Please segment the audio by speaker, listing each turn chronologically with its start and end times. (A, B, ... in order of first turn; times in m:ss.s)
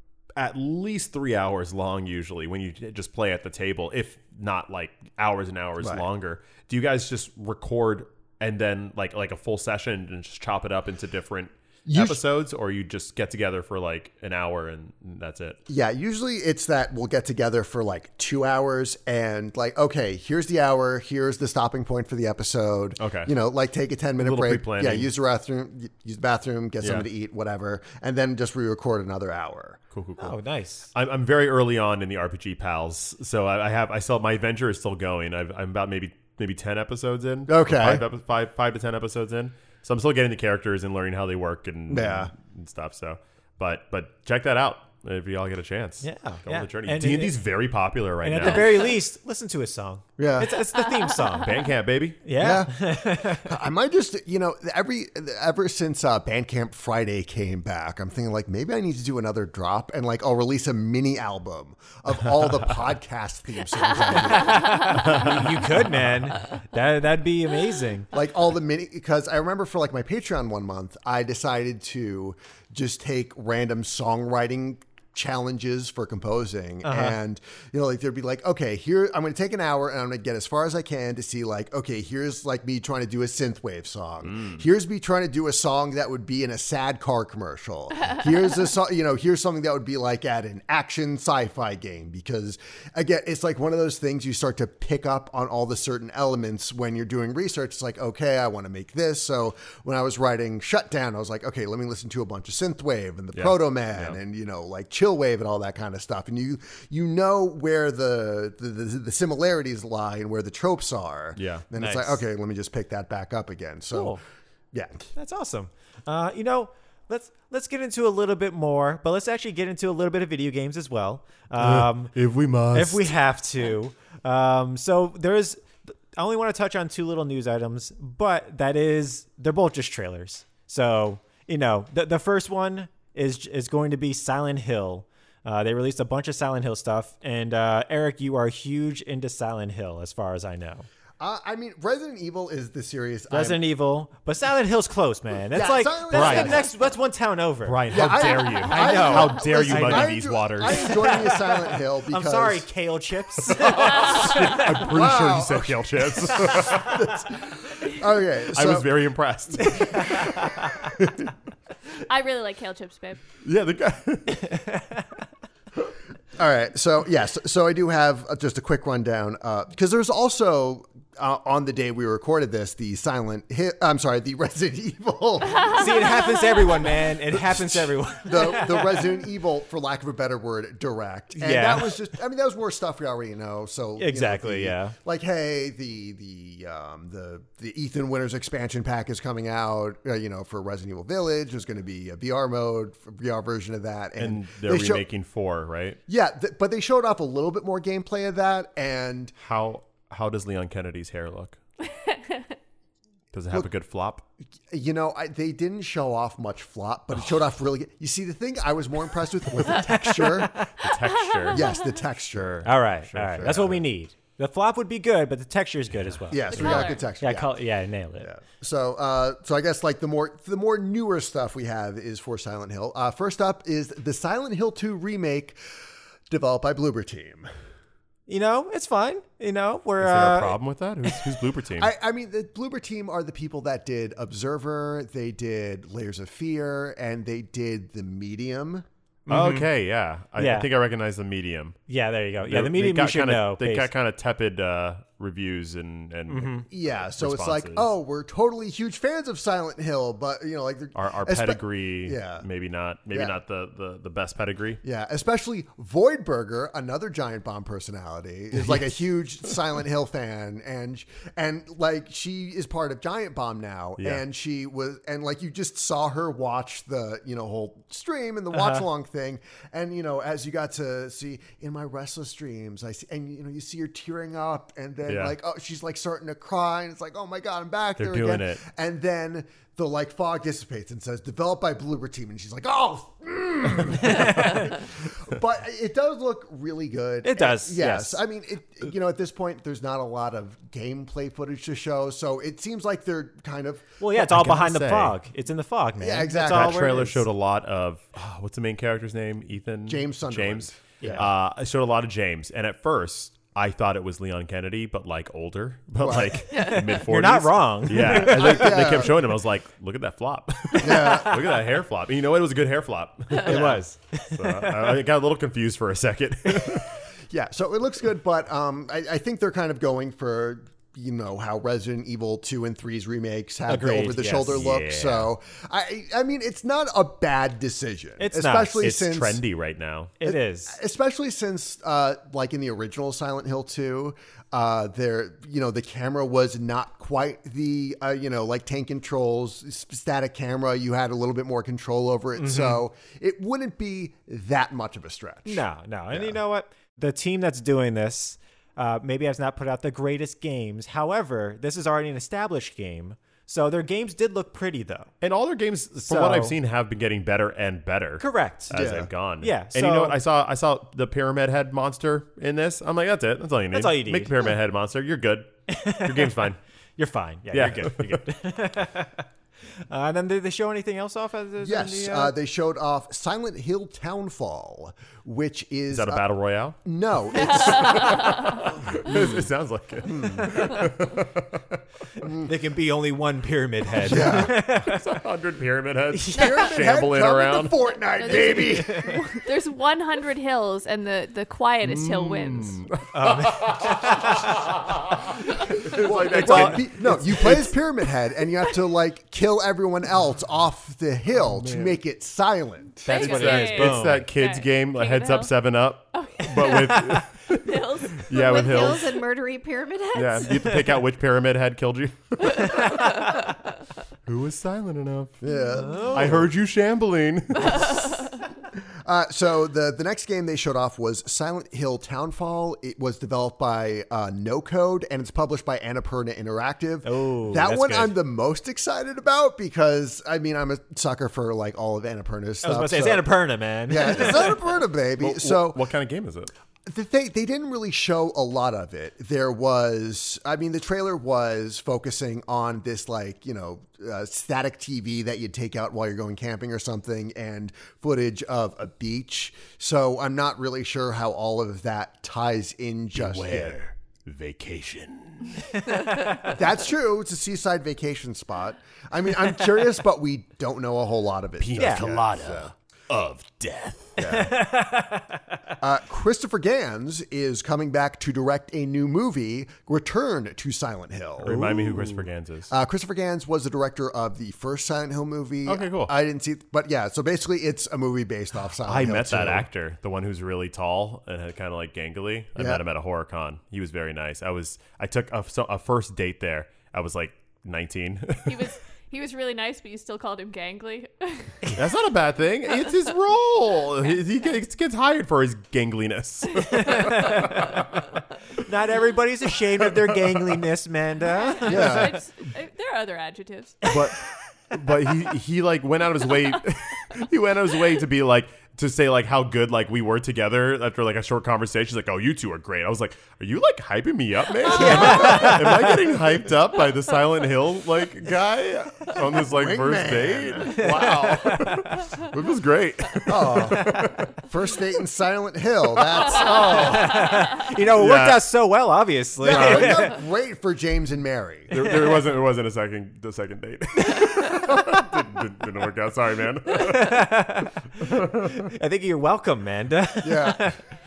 0:00.4-0:15.6 A
0:05.8-0:06.0 B
0:11.9-0:12.2 B
0:15.7-0:29.8 B
0:23.0-0:23.3 A
0:24.2-0:25.1 A
0:29.9-0:30.4 A
0:30.2-0:30.9 C
0:30.9-0:48.9 A
0:37.5-0:38.0 B
0:41.9-0:42.3 B
0:46.0-0:47.4 C
0:48.2-0:51.6 C
0:50.2-0:50.6 B
0:51.4-0:52.2 A
0:52.2-0:53.5 C
0:52.4-1:05.3 B
1:04.3-1:08.1 C
1:04.9-1:05.6 A
1:08.1-1:54.2 B
1:16.8-1:17.2 C
1:24.2-1:24.6 A
1:43.3-1:44.2 A
1:51.4-1:51.6 A
1:51.8-1:52.2 C
1:53.9-1:54.2 C
1:54.7-1:55.1 B
1:55.1-2:02.1 C
2:01.6-2:03.1 A
2:02.7-2:20.9 C
2:21.2-2:23.6 B
2:23.3-2:27.9 C
2:25.5-2:26.7 B
2:26.1-2:26.7 A
2:27.6-2:31.0 A
2:27.9-2:32.7 B
2:28.6-2:34.8 C
2:33.4-2:37.1 A
2:34.8-2:38.9 B
2:36.5-2:37.0 C
2:38.5-2:40.2 A
2:39.6-2:40.8 C
2:39.9-2:41.3 B
2:42.0-2:43.2 D
2:43.4-2:44.5 A
2:44.5-2:45.0 C
2:46.4-2:56.2 B
2:55.7-2:59.2 C
2:57.3-3:15.0 B
3:01.3-3:02.0 C
3:04.0-3:05.0 C
3:14.2-3:16.0 A
3:16.1-3:19.3 B
3:19.4-3:21.6 A
3:21.9-3:22.5 D
3:23.3-3:24.2 A
3:24.7-3:30.6 B
3:29.7-3:30.8 C
3:30.7-3:31.7 A
3:31.0-3:31.8 D
3:31.5-3:32.7 B
3:32.4-3:33.8 A
3:32.6-3:38.3 C
3:33.4-3:33.8 B
3:36.3-3:37.5 B
3:36.5-3:37.0 D
3:36.5-3:36.9 A
3:38.2-3:45.6 B
3:46.3-3:47.5 B
3:48.3-3:50.6 C
3:50.0-3:51.9 A
3:51.8-3:58.8 B
3:59.3-3:59.7 C
3:59.3-4:01.8 A
4:00.4-4:00.7 C
4:01.9-4:03.9 C
4:02.4-4:07.9 A
4:06.3-4:06.6 C
4:06.7-4:12.4 B
4:10.9-4:14.8 A
4:14.8-4:53.9 B
4:24.0-4:24.2 A
4:28.5-4:28.8 C
4:35.1-4:35.3 A
4:38.0-4:38.6 A
4:44.0-4:44.7 C
4:47.2-4:48.2 C
4:54.0-4:57.2 C
4:54.1-4:55.2 A
4:56.0-4:57.0 B
4:56.4-5:17.0 A
4:59.9-5:01.3 B
5:01.0-5:01.3 C
5:06.0-5:06.6 B
5:06.5-5:07.0 D
5:07.0-5:08.9 C
5:07.9-5:09.3 B
5:10.8-5:11.5 B
5:10.8-5:11.5 C
5:13.3-5:15.0 C
5:17.3-5:29.4 B
5:23.7-5:25.0 C
5:24.6-5:25.2 A
5:28.2-5:28.9 C
5:28.8-5:30.2 A
5:30.2-5:30.8 C
5:30.2-5:45.6 B
5:42.4-5:42.8 C
5:45.4-5:55.1 C
5:55.2-6:06.6 A
5:56.0-5:56.6 C
5:58.2-5:58.8 C
5:58.7-5:59.1 B
5:59.4-6:00.2 C
6:03.7-6:04.3 C
6:05.7-6:06.4 C
6:07.0-6:09.2 C
6:07.5-6:08.2 A
6:09.9-6:12.3 C
6:11.6-6:16.2 B
6:15.9-6:16.8 A
6:16.8-6:19.5 B
6:17.3-6:18.7 D
6:17.5-6:21.8 A
6:20.0-6:20.8 B
6:22.2-6:22.5 B
6:22.4-6:25.0 C
6:24.0-6:24.5 B
6:24.0-6:27.8 A
6:26.1-6:26.7 C
6:26.3-6:29.2 B
6:28.2-6:32.8 D
6:28.7-6:29.2 C
6:31.8-6:37.6 A
6:33.1-6:34.7 C
6:35.9-6:43.0 B
6:35.9-6:37.6 C
6:41.4-6:42.0 A
6:43.0-6:44.3 C
6:43.1-6:45.5 D
6:43.1-6:49.2 A
6:46.1-6:47.0 D
6:46.5-6:47.2 C
6:47.5-6:48.9 D
6:48.3-6:50.8 E
6:50.1-6:53.4 A
6:52.6-6:53.1 C
6:52.6-6:53.5 D
6:54.2-6:55.4 A
6:55.4-6:56.5 B
6:55.8-6:56.5 C
6:56.0-6:58.3 A
6:57.7-6:58.4 D
6:58.8-7:13.3 B
7:07.0-7:08.2 C
7:12.6-7:14.5 C
7:13.9-7:15.8 B
7:15.2-7:16.5 A
7:16.8-7:33.8 B
7:33.1-7:35.7 A
7:35.6-7:36.5 C
7:36.4-7:42.7 B
7:41.6-7:44.2 A
7:41.8-7:42.0 C
7:44.2-7:44.6 B
7:44.2-7:45.4 C
7:45.8-7:51.8 B
7:51.4-7:52.7 A
7:51.4-7:52.2 C
7:52.7-7:59.7 B
7:55.6-7:56.1 A
7:58.8-8:08.7 A
8:02.6-8:02.8 B
8:08.5-8:11.7 D
8:11.7-8:18.0 A
8:16.7-8:17.4 C
8:18.6-8:22.2 C
8:21.3-8:23.9 D
8:21.7-8:22.2 B
8:23.8-8:44.4 A
8:34.6-8:35.9 C
8:34.7-8:35.7 B
8:39.0-8:41.0 B
8:40.6-8:42.0 C
8:43.2-8:47.2 B
8:43.5-8:44.0 C
8:46.0-8:47.2 A
8:46.6-8:50.1 C
8:47.8-8:48.4 A
8:49.4-8:51.7 B
8:49.4-8:50.1 A
8:51.7-8:57.2 A
8:51.8-8:52.2 C
8:56.7-9:00.8 C
8:58.0-8:58.7 A
9:00.2-9:00.7 B